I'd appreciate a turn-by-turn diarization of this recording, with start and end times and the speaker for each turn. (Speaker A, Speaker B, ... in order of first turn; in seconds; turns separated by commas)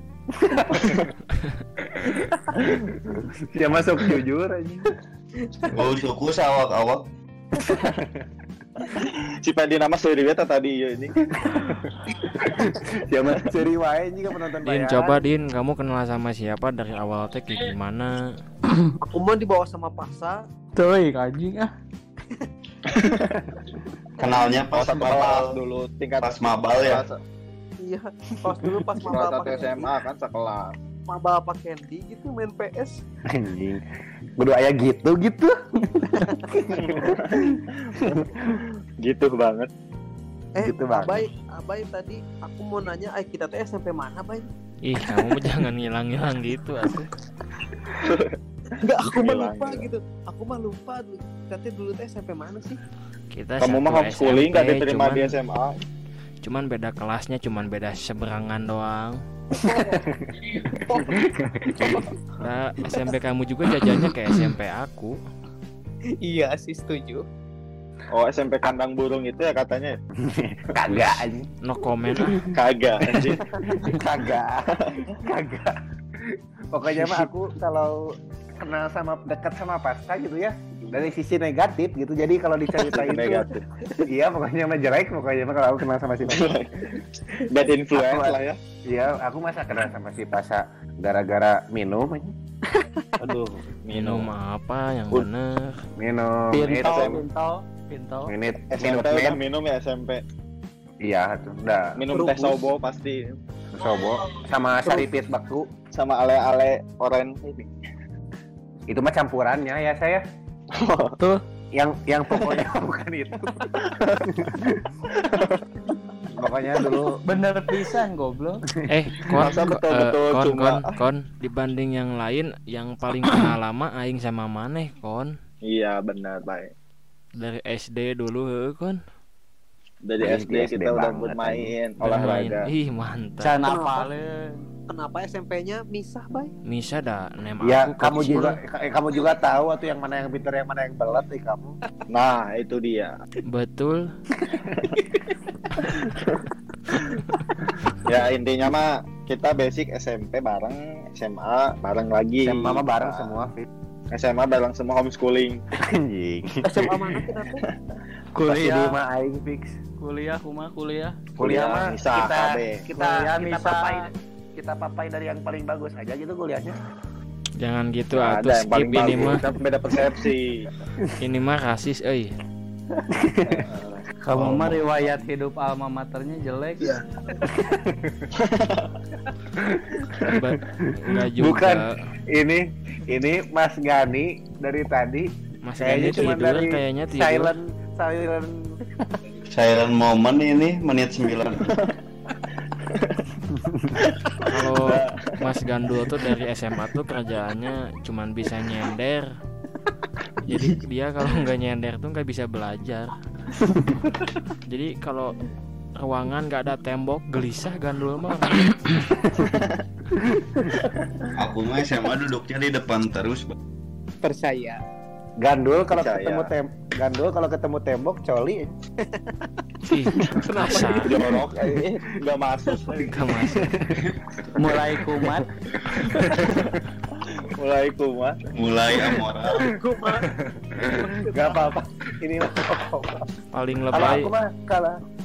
Speaker A: 0.4-1.0, Speaker A: 1.9-5.0, Speaker B: 5.7-7.1, Speaker A: 7.7-8.2, Speaker C: 9.1-11.2, Speaker A: 11.4-15.2, Speaker D: 14.7-18.2, Speaker E: 18.7-19.0, Speaker F: 19.1-20.5, Speaker E: 20.8-21.7, Speaker C: 22.9-23.2, Speaker B: 24.2-25.6, Speaker C: 24.7-27.2, Speaker B: 26.2-27.0, Speaker F: 27.8-30.0, Speaker C: 29.0-30.7, Speaker F: 31.1-33.0, Speaker A: 33.3-33.8, Speaker A: 34.4-38.3, Speaker C: 36.8-37.5, Speaker C: 39.0-39.7, Speaker F: 40.5-44.5, Speaker A: 40.6-41.3, Speaker D: 44.9-47.1, Speaker C: 48.0-48.3, Speaker F: 48.8-52.8, Speaker C: 49.1-49.9, Speaker D: 53.3-55.4, Speaker C: 53.6-55.8, Speaker D: 56.4-59.2, Speaker F: 59.6-60.0, Speaker A: 59.6-62.0, Speaker F: 61.8-62.1, Speaker D: 62.4-65.2, Speaker F: 66.2-67.3, Speaker C: 68.1-70.0, Speaker A: 70.2-71.5, Speaker D: 70.9-72.5, Speaker C: 72.5-73.4, Speaker A: 73.2-75.7, Speaker A: 76.7-78.0, Speaker A: 78.6-83.5, Speaker C: 82.8-83.6, Speaker A: 84.0-86.6, Speaker C: 86.3-86.7, Speaker C: 87.5-88.6, Speaker A: 87.9-92.3, Speaker C: 93.2-94.3, Speaker D: 93.9-95.7, Speaker A: 96.0-97.2, Speaker E: 96.5-98.3, Speaker C: 96.8-97.3, Speaker A: 98.3-99.4, Speaker C: 98.7-100.2, Speaker A: 101.0-102.0, Speaker C: 102.0-103.4, Speaker F: 102.1-102.6, Speaker A: 103.7-105.7, Speaker C: 105.9-107.7, Speaker A: 108.9-110.2, Speaker C: 110.7-111.2, Speaker A: 111.8-113.7, Speaker A: 114.3-114.9, Speaker C: 115.2-115.5, Speaker A: 116.4-117.2, Speaker E: 117.2-118.7, Speaker D: 118.9-125.3, Speaker C: 119.4-120.9, Speaker C: 125.7-126.7, Speaker D: 127.4-129.0, Speaker C: 130.1-132.7, Speaker A: 130.2-131.7, Speaker D: 132.0-133.6, Speaker E: 133.4-134.7, Speaker F: 133.6-134.1, Speaker F: 134.9-136.5, Speaker D: 136.7-138.6, Speaker A: 137.7-141.8, Speaker C: 142.1-143.1, Speaker D: 143.5-144.1, Speaker F: 145.0-145.3, Speaker C: 148.1-153.5, Speaker A: 152.5-153.7, Speaker C: 154.1-155.6, Speaker A: 155.8-157.1, Speaker F: 156.6-157.6, Speaker E: 158.3-159.0, Speaker A: 158.4-159.8, Speaker E: 160.0-161.2, Speaker A: 161.3-162.2, Speaker C: 161.4-162.8, Speaker E: 162.2-164.1, Speaker A: 162.8-166.8, Speaker D: 167.6-169.4, Speaker C: 168.1-170.7, Speaker D: 171.2-172.3, Speaker A: 173.1-173.6, Speaker C: 173.4-174.0, Speaker E: 174.2-176.9, Speaker B: 174.3-174.8, Speaker F: 176.8-177.1, Speaker A: 177.4-178.3, Speaker C: 178.4-178.9, Speaker A: 179.6-180.1, Speaker D: 180.3-181.9, Speaker A: 180.7-181.8, Speaker A: 182.3-188.5, Speaker D: 185.6-187.5, Speaker B: 189.5-191.7, Speaker C: 191.5-191.9, Speaker C: 192.7-193.3, Speaker C: 194.5-195.4, Speaker D: 194.5-199.3, Speaker D: 200.5-203.2, Speaker F: 204.0-204.4, Speaker D: 204.7-205.3, Speaker D: 206.0-209.0, Speaker C: 209.4-209.7, Speaker B: 211.3-213.6, Speaker F: 214.2-214.8, Speaker A: 215.4-218.7, Speaker C: 215.9-216.5, Speaker F: 219.0-219.5, Speaker D: 219.9-221.3, Speaker F: 220.2-221.2, Speaker C: 221.0-223.2, Speaker D: 223.0-223.7, Speaker A: 223.5-224.1, Speaker E: 224.6-225.5, Speaker C: 225.9-226.7, Speaker A: 225.9-226.6, Speaker C: 227.5-228.4, Speaker B: 228.6-229.7, Speaker F: 229.5-230.3, Speaker A: 230.4-233.2, Speaker F: 230.8-231.7, Speaker D: 233.5-234.3, Speaker A: 233.9-235.0